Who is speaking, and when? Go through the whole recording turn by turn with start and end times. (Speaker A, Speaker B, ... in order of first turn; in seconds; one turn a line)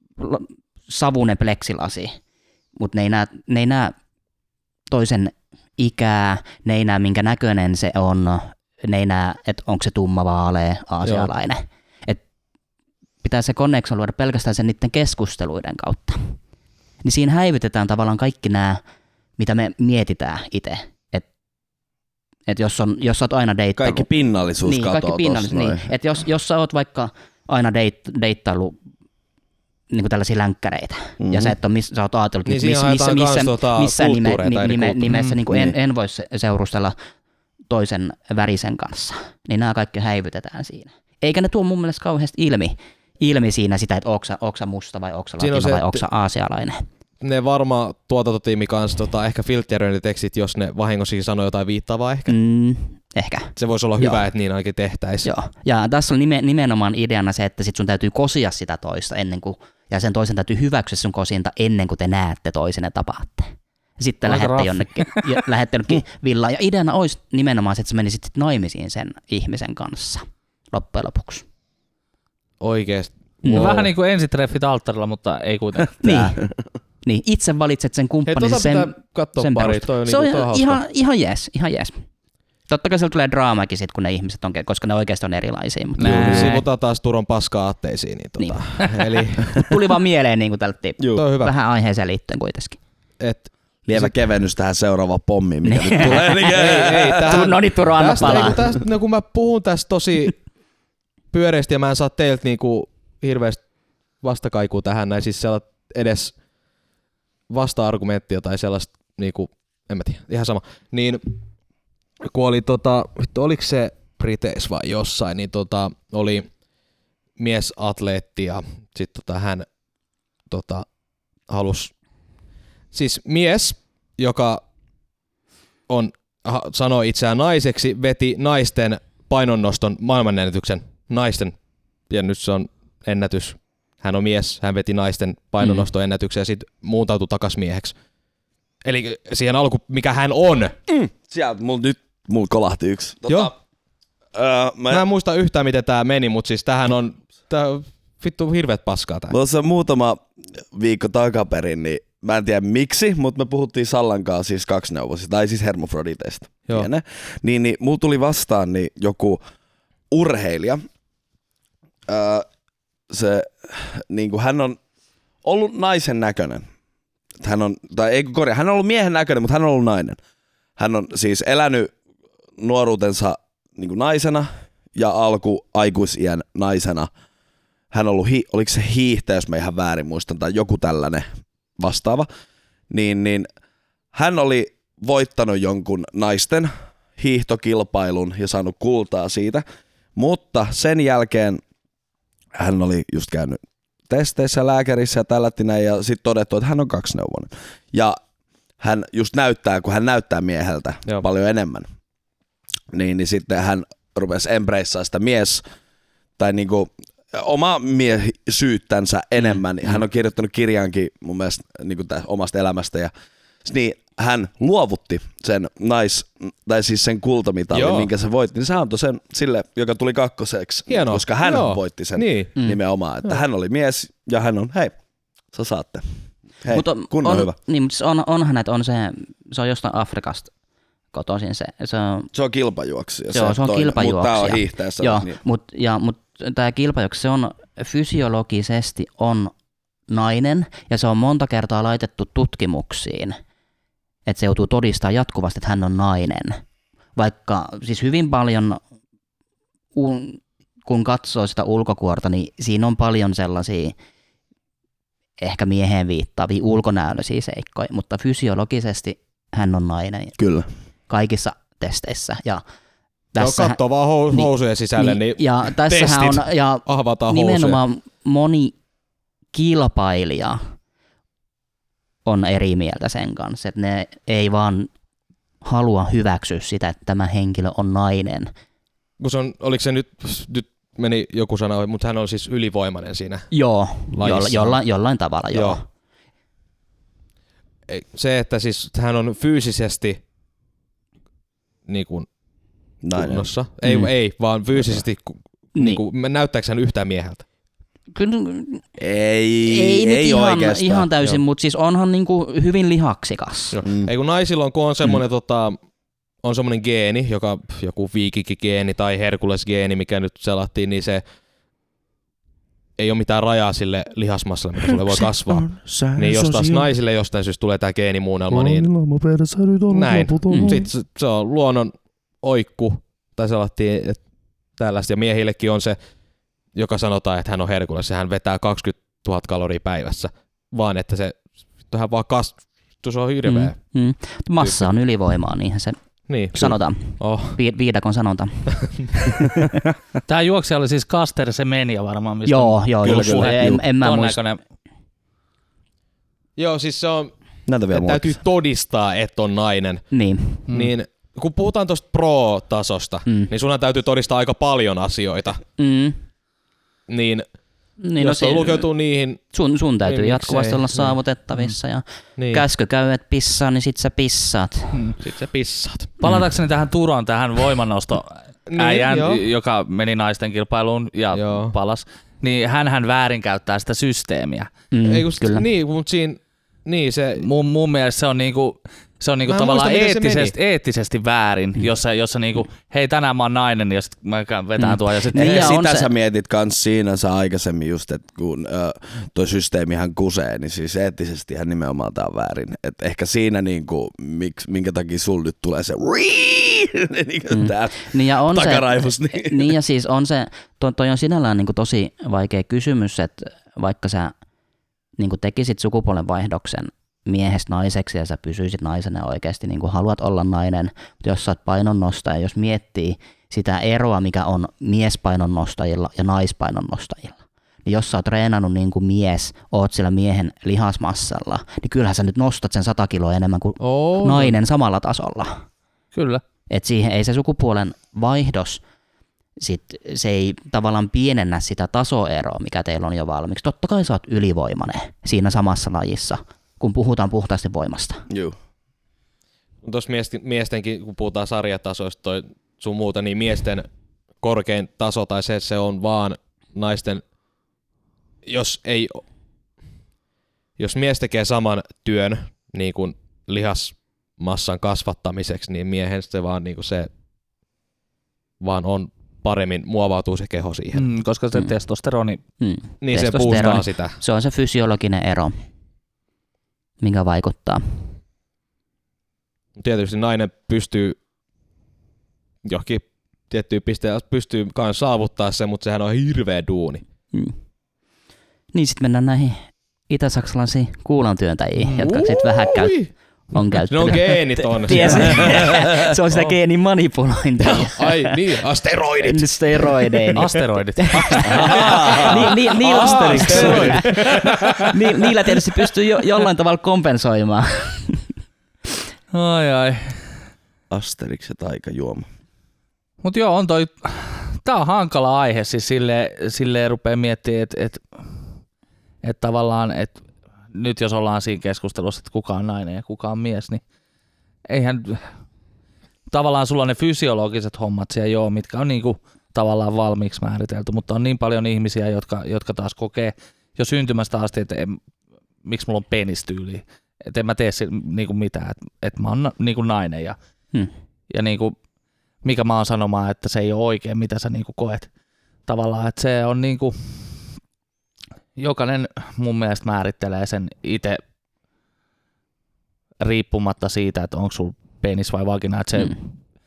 Speaker A: 0.2-2.1
Speaker A: 2.8-3.9
Speaker A: 4.9-12.2
Speaker A: 13.2-16.4
Speaker A: 17.0-18.8
Speaker A: 19.4-21.2
Speaker A: 22.5-24.1
Speaker B: 23.8-25.8
Speaker A: 24.6-28.8
Speaker A: 29.9-36.9
Speaker B: 31.2-31.5
Speaker C: 32.5-35.1
Speaker D: 35.1-35.4
Speaker A: 37.7-46.8
Speaker C: 45.4-46.0
Speaker C: 47.2-52.3
Speaker A: 52.3-54.2
Speaker C: 53.6-55.3
Speaker A: 55.2-71.4
Speaker D: 64.3-65.3
Speaker C: 72.6-73.9
Speaker A: 73.4-73.7
Speaker D: 73.5-76.3
Speaker A: 76.0-76.4
Speaker A: 77.0-82.0
Speaker C: 78.2-80.8
Speaker A: 82.7-86.5
Speaker D: 86.0-86.6
Speaker C: 86.1-89.7
Speaker A: 89.5-92.8
Speaker C: 91.2-91.5
Speaker C: 93.2-94.1
Speaker B: 93.9-97.4
Speaker A: 95.6-96.6
Speaker C: 96.5-100.4
Speaker A: 97.2-98.6
Speaker C: 101.3-103.6
Speaker C: 104.2-106.3
Speaker C: 107.5-111.3
Speaker C: 112.2-116.5
Speaker C: 117.4-119.7
Speaker C: 120.5-120.8
Speaker C: 121.5-121.9
Speaker C: 122.9-124.6
Speaker C: 125.9-131.5
Speaker C: 132.1-137.9
Speaker C: 138.8-140.7
Speaker B: 140.9-143.5
Speaker B: 144.3-145.1
Speaker C: 144.9-149.3
Speaker B: 149.3-159.4
Speaker B: 160.1-160.8
Speaker B: 162.1-162.4
Speaker B: 163.1-164.8
Speaker B: 165.4-166.6
Speaker B: 167.4-170.2
Speaker B: 170.8-171.9
Speaker B: 172.6-177.1
Speaker B: 177.9-181.2
Speaker B: 181.8-182.3
Speaker B: 182.9-183.5
Speaker B: 184.1-189.6
Speaker B: 190.2-191.6
Speaker B: 192.5-198.2
Speaker B: 198.8-201.8
Speaker B: 202.9-205.6
Speaker B: 206.4-213.1
Speaker B: 213.6-224.9
Speaker C: 217.7-218.1
Speaker C: 220.9-222.5
Speaker B: 225.5-226.0
Speaker B: 226.6-227.5
Speaker A: 226.7-230.5
Speaker A: 231.1-232.3
Speaker B: 232.3-235.4
Speaker A: 233.3-239.5
Speaker A: 240.1-243.4
Speaker A: 244.2-246.6
Speaker A: 247.2-248.8
Speaker A: 249.9-253.9
Speaker A: 255.4-260.4
Speaker B: 260.4-260.7
Speaker A: 261.1-262.6
Speaker A: 263.3-263.8
Speaker C: 263.4-267.8
Speaker A: 264.3-268.7
Speaker A: 269.5-270.6
Speaker A: 272.2-274.9
Speaker A: 275.6-278.5
Speaker C: 279.2-283.5
Speaker A: 283.5-285.8
Speaker C: 284.1-284.8
Speaker C: 285.5-285.8
Speaker C: 287.9-290.2
Speaker C: 291.9-292.3
Speaker B: 293.0-293.5
Speaker C: 293.1-297.4
Speaker A: 293.8-294.1
Speaker A: 295.7-296.0
Speaker A: 298.1-298.8
Speaker B: 299.0-301.1
Speaker A: 299.6-303.8
Speaker C: 303.7-305.8
Speaker C: 306.4-311.2
Speaker C: 313.0-318.9
Speaker B: 315.2-316.9
Speaker B: 318.5-320.8
Speaker C: 319.9-324.2
Speaker A: 320.5-320.8
Speaker C: 324.8-326.0
Speaker C: 326.7-333.7
Speaker A: 333.4-336.0
Speaker C: 336.3-337.6
Speaker A: 336.5-339.8
Speaker D: 340.3-344.6
Speaker A: 342.4-344.4
Speaker B: 343.0-343.8
Speaker C: 346.6-347.3
Speaker B: 347.7-348.4
Speaker C: 347.9-350.1
Speaker A: 350.1-350.6
Speaker D: 350.7-350.9
Speaker C: 350.7-355.6
Speaker A: 355.8-356.2
Speaker C: 357.1-357.5
Speaker A: 358.0-358.9
Speaker C: 358.2-359.4
Speaker A: 359.5-364.9
Speaker C: 360.0-361.1
Speaker C: 362.4-362.6
Speaker C: 365.2-366.1
Speaker D: 366.2-374.7
Speaker C: 368.7-369.4
Speaker C: 371.3-371.7
Speaker A: 374.9-375.6
Speaker C: 375.0-377.4
Speaker D: 377.4-385.7
Speaker C: 379.5-380.5
Speaker A: 384.8-386.1
Speaker B: 385.3-399.7
Speaker A: 397.5-404.3
Speaker A: 405.2-425.6
Speaker C: 423.8-424.6
Speaker D: 426.1-426.4
Speaker A: 426.7-428.8
Speaker A: 429.6-438.2
Speaker B: 438.3-438.6
Speaker C: 439.8-443.9
Speaker C: 444.4-447.2
Speaker C: 448.4-449.2
Speaker C: 450.8-457.1
Speaker C: 458.6-461.1
Speaker D: 460.9-462.4
Speaker A: 462.6-465.5
Speaker C: 463.0-464.1
Speaker A: 467.0-467.8
Speaker C: 469.8-471.2
Speaker C: 472.6-477.0
Speaker A: 478.7-482.9
Speaker C: 482.0-483.1
Speaker A: 483.5-488.4
Speaker C: 483.9-485.8
Speaker D: 484.9-485.3
Speaker C: 487.6-490.3
Speaker A: 489.2-494.1
Speaker D: 490.3-492.3
Speaker B: 491.4-493.8
Speaker C: 491.8-494.9
Speaker D: 492.9-494.9
Speaker A: 494.8-498.2
Speaker D: 499.3-500.2
Speaker B: 500.9-502.2
Speaker D: 503.2-508.0
Speaker D: 509.2-510.2
Speaker D: 510.7-513.8
Speaker D: 514.7-515.3
Speaker D: 516.3-525.0
Speaker D: 525.6-530.4
Speaker D: 531.3-531.8
Speaker D: 532.4-535.1
Speaker D: 535.6-537.2
Speaker D: 538.6-541.2
Speaker D: 543.2-546.2